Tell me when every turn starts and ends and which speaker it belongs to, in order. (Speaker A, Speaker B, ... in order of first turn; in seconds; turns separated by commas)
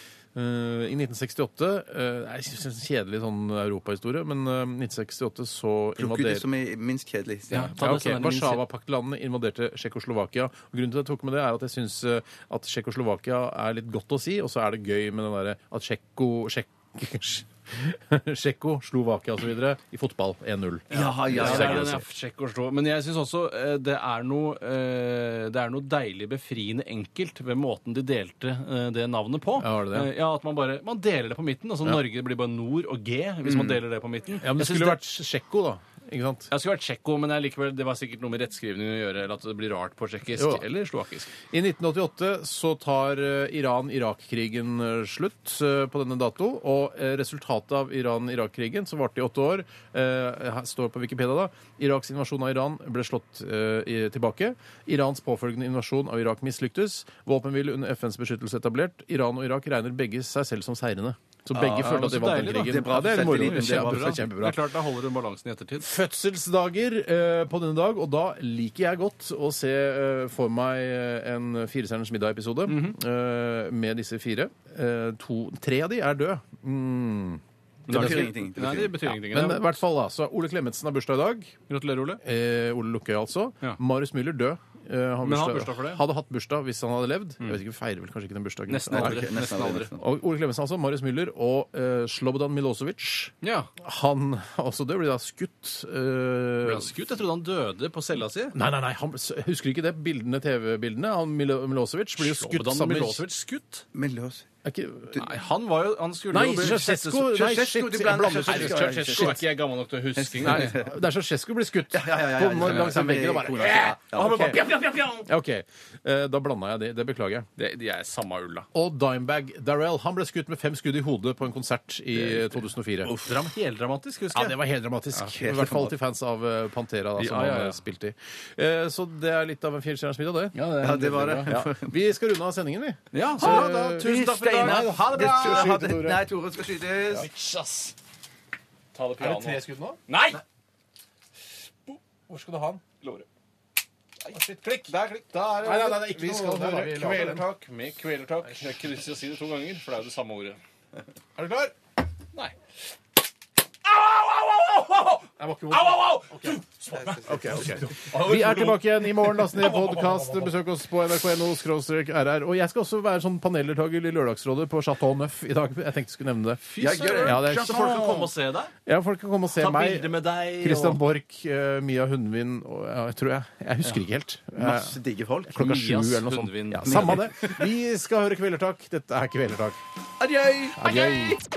Speaker A: 0.3-6.4, Speaker B: 6.0-7.7, Speaker C: 7.5-8.6, Speaker A: 7.5-22.0, Speaker B: 20.9-22.0, Speaker C: 20.9-35.0, Speaker A: 29.6-30.1, Speaker B: 33.4-33.8, Speaker A: 34.4-36.5, Speaker C: 36.5-41.3, Speaker A: 40.3-40.6, Speaker A: 41.5-64.6, Speaker B: 61.5-61.9, Speaker C: 61.6-65.9, Speaker B: 62.5-64.2, Speaker A: 65.8-78.3, Speaker C: 72.7-73.0, Speaker C: 77.9-79.8, Speaker B: 77.9-78.9, Speaker A: 79.0-81.5, Speaker C: 81.7-82.2, Speaker A: 82.2-89.3, Speaker C: 85.2-86.0, Speaker C: 88.7-89.9, Speaker B: 88.9-90.0, Speaker A: 90.0-96.9, Speaker C: 93.4-93.7, Speaker C: 96.6-98.5, Speaker A: 98.5-103.2, Speaker C: 102.2-103.8, Speaker B: 103.9-104.5, Speaker A: 104.6-105.2, Speaker C: 105.1-107.1, Speaker A: 106.3-109.4, Speaker B: 106.8-109.4, Speaker C: 108.5-110.8, Speaker B: 110.2-110.9, Speaker A: 110.4-114.6, Speaker B: 111.9-114.5, Speaker C: 112.7-113.0, Speaker C: 113.5-115.3, Speaker A: 115.1-117.5, Speaker C: 117.6-118.7, Speaker A: 118.7-123.2, Speaker C: 122.1-124.6, Speaker A: 124.3-136.2, Speaker B: 125.3-125.9, Speaker C: 127.2-127.8, Speaker C: 130.6-131.6, Speaker B: 130.8-131.9, Speaker C: 133.1-135.8, Speaker B: 133.4-137.3, Speaker C: 137.1-137.9, Speaker C: 138.9-140.4, Speaker A: 139.2-140.0, Speaker A: 142.3-142.8, Speaker C: 143.0-143.2, Speaker C: 144.2-150.6, Speaker A: 144.3-144.9, Speaker A: 145.5-147.5, Speaker A: 151.3-151.7, Speaker C: 153.8-160.6, Speaker A: 155.4-156.6, Speaker B: 156.9-157.9, Speaker A: 157.2-168.0, Speaker C: 166.6-168.7, Speaker B: 166.8-168.3, Speaker A: 168.8-175.0, Speaker C: 169.6-171.0, Speaker B: 174.6-175.6, Speaker A: 175.5-179.8, Speaker C: 175.5-177.2, Speaker B: 176.8-177.7, Speaker B: 180.2-181.4, Speaker A: 180.8-181.4